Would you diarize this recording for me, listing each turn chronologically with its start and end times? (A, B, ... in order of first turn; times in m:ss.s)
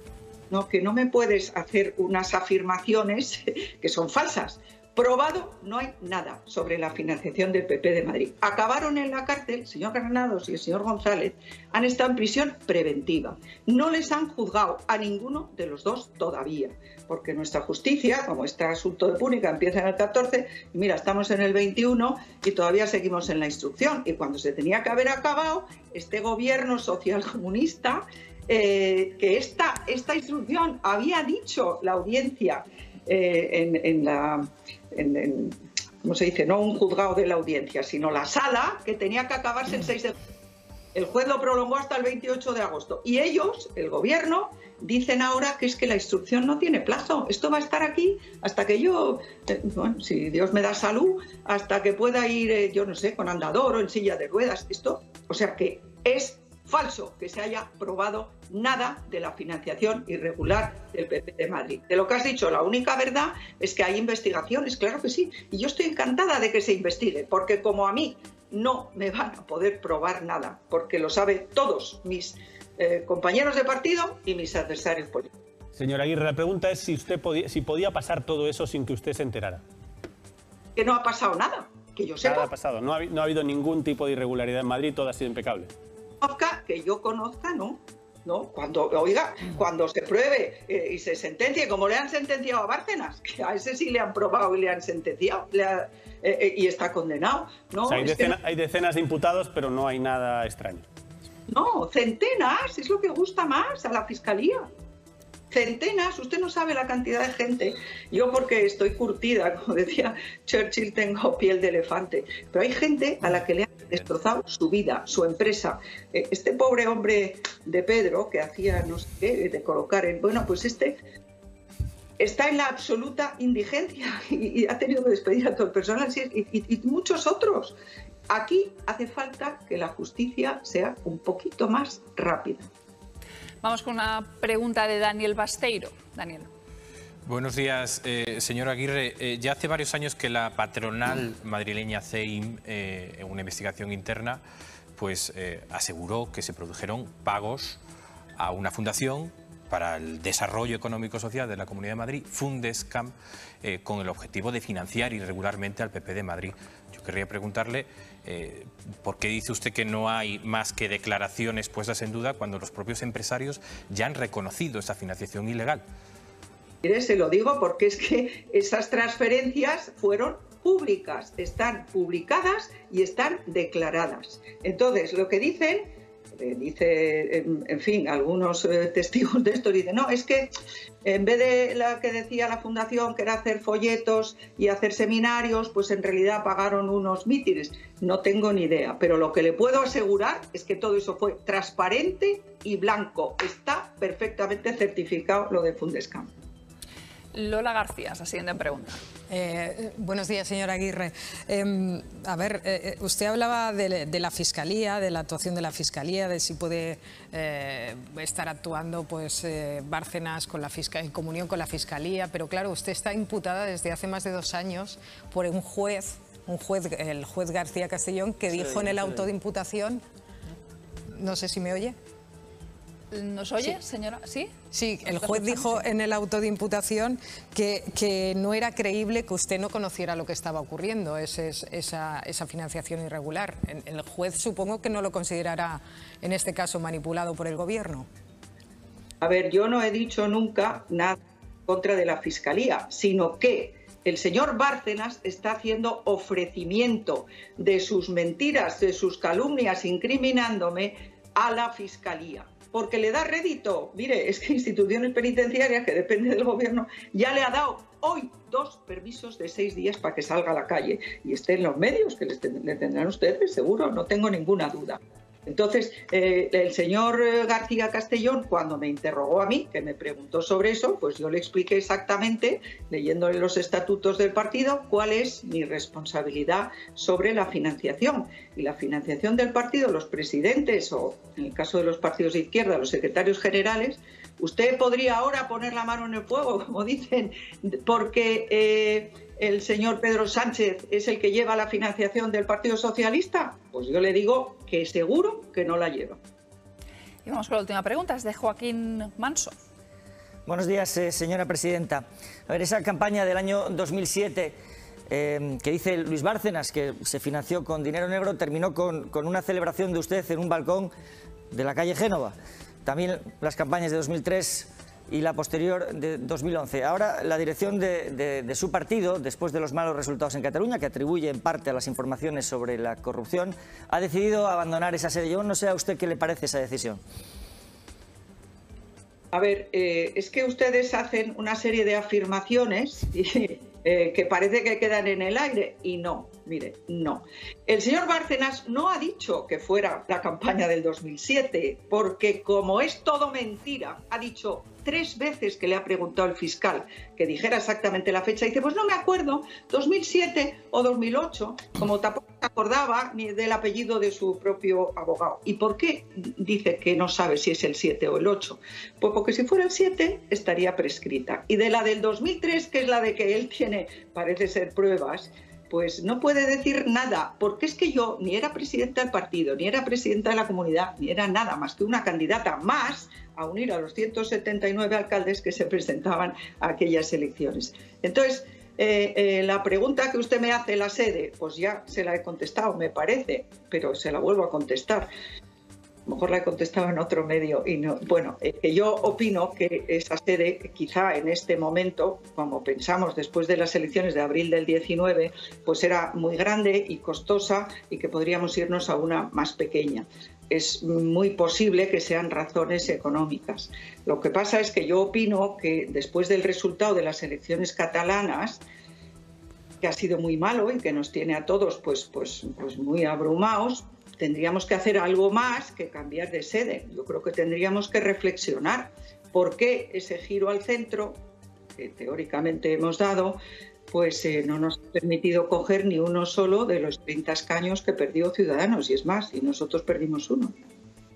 0:00.5-0:40.2 A
0:40.9-1:15.3 A
1:15.8-1:19.6 B
1:20.8-1:22.5 A
1:22.2-1:25.7 B
1:26.2-1:38.4 A
1:37.9-1:40.8 B
1:41.5-1:44.7 A
1:45.5-2:01.0 A
2:02.2-2:07.8 A
2:08.3-2:12.7 A
2:13.6-2:16.5 C
2:17.3-2:24.4 D
2:25.0-2:27.8 D
2:28.4-2:45.8 D
2:46.8-3:00.5 A
3:01.0-3:16.3 A
3:17.3-3:19.0 C
3:19.3-3:40.0 E
3:38.7-3:39.2 F
3:41.1-3:42.0 E
3:43.1-3:45.9 C
3:44.7-3:58.1 E
3:59.2-4:56.2 A
4:57.2-4:59.5 C
5:00.5-5:04.6 F
5:05.1-5:10.9 F
5:11.5-5:27.0 F
5:29.3-6:25.1 A
6:26.1-6:48.6 A
6:49.8-7:01.2 A
7:01.8-7:03.4 A
7:03.9-7:10.5 A